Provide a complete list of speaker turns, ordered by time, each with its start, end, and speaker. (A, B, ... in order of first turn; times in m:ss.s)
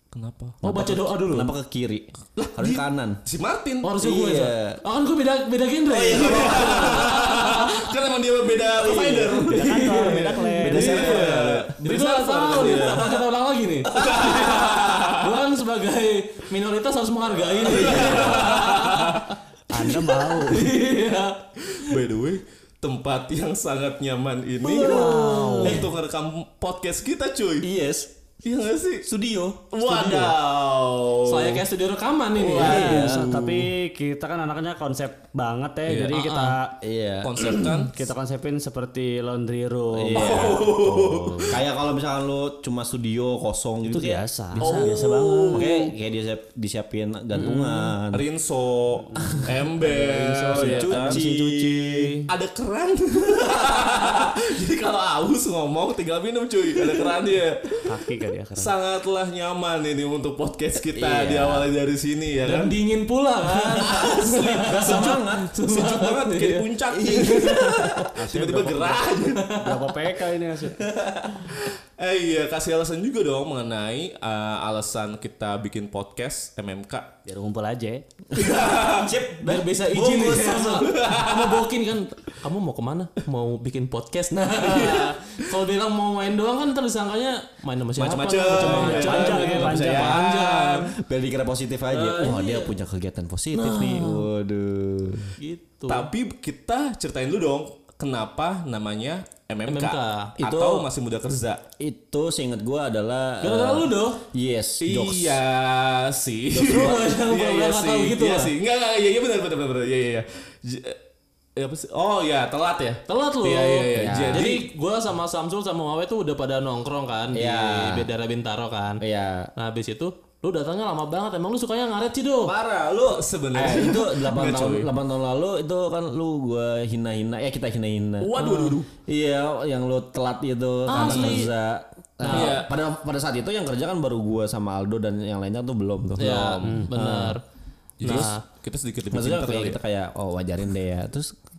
0:00.1-0:00.6 A
0:00.6-0:01.5 B
0:00.6-0:03.2 C
0:02.4-0:04.0 A
0:03.8-0:07.9 B
0:04.0-0:04.8 C
0:05.9-0:07.1 C
0:06.2-0:13.2 A
0:08.7-0:09.7 C
0:09.5-0:11.0 D
0:09.6-0:22.0 B
0:10.6-0:11.8 C
0:13.9-0:15.3 A
0:17.6-0:20.1 A
0:19.7-0:20.8 D
0:21.7-0:27.7 A
0:24.6-0:25.9 D
0:24.7-0:25.9 C
0:25.0-0:25.8 B
0:27.6-0:28.1 C
0:28.4-0:29.1 A
0:29.0-0:29.8 C
0:29.7-0:31.6 A
0:29.8-0:30.4 B
0:31.2-0:33.1 B
0:32.4-0:33.7 C
0:32.4-0:33.1 A
0:32.6-0:36.8 D
0:36.0-0:36.6 B
0:36.8-0:37.7 C
0:37.2-0:38.0 A
0:37.4-0:41.6 D
0:39.9-0:40.9 C
0:40.1-0:41.6 A
0:41.4-0:45.0 C
0:43.9-0:45.8 D
0:44.6-0:45.9 A
0:45.5-0:48.2 C
0:47.6-0:51.2 A
0:49.2-0:52.3 D
0:50.5-0:52.1 C
0:52.3-0:57.8 A
0:57.8-0:58.7 D
0:58.6-1:02.8 A
1:01.0-1:01.7 C
1:02.4-1:08.1 B
1:03.7-1:05.5 C
1:04.7-1:10.0 A
1:07.0-1:07.3 C
1:08.2-1:10.9 D
1:09.4-1:09.8 B
1:10.6-1:11.5 C
1:11.4-1:17.1 A
1:17.3-1:18.0 D
1:18.3-1:20.8 C
1:18.4-1:19.1 A
1:19.4-1:30.9 B
1:20.6-1:21.6 A
1:24.5-1:25.5 A
1:28.0-1:31.0 A
1:28.6-1:29.0 C
1:28.8-1:30.2 D
1:30.8-1:35.4 C
1:31.9-1:32.7 B
1:33.6-1:34.2 B
1:35.4-1:36.1 B
1:35.9-1:41.6 A
1:39.7-1:40.4 B
1:40.4-1:40.9 C
1:41.8-1:45.4 C
1:43.4-1:44.2 B
1:44.8-1:51.0 A
1:46.5-1:47.2 C
1:46.6-1:48.5 B
1:51.6-1:54.5 A
1:53.1-1:59.0 B
1:53.9-1:54.6 C
1:57.3-1:58.1 C
1:59.0-1:59.5 C
1:59.6-2:02.6 B
2:02.4-2:08.3 C
2:03.1-2:04.9 A
2:08.2-2:08.9 A
2:08.4-2:08.8 B
2:09.1-2:16.6 C
2:10.9-2:11.5 B
2:10.9-2:11.4 A
2:12.2-2:12.6 B
2:12.3-2:12.7 A
2:16.2-2:17.3 A
2:16.2-2:17.4 B
2:16.6-2:16.9 D
2:18.0-2:19.8 A
2:18.0-2:18.4 B
2:19.1-2:21.4 C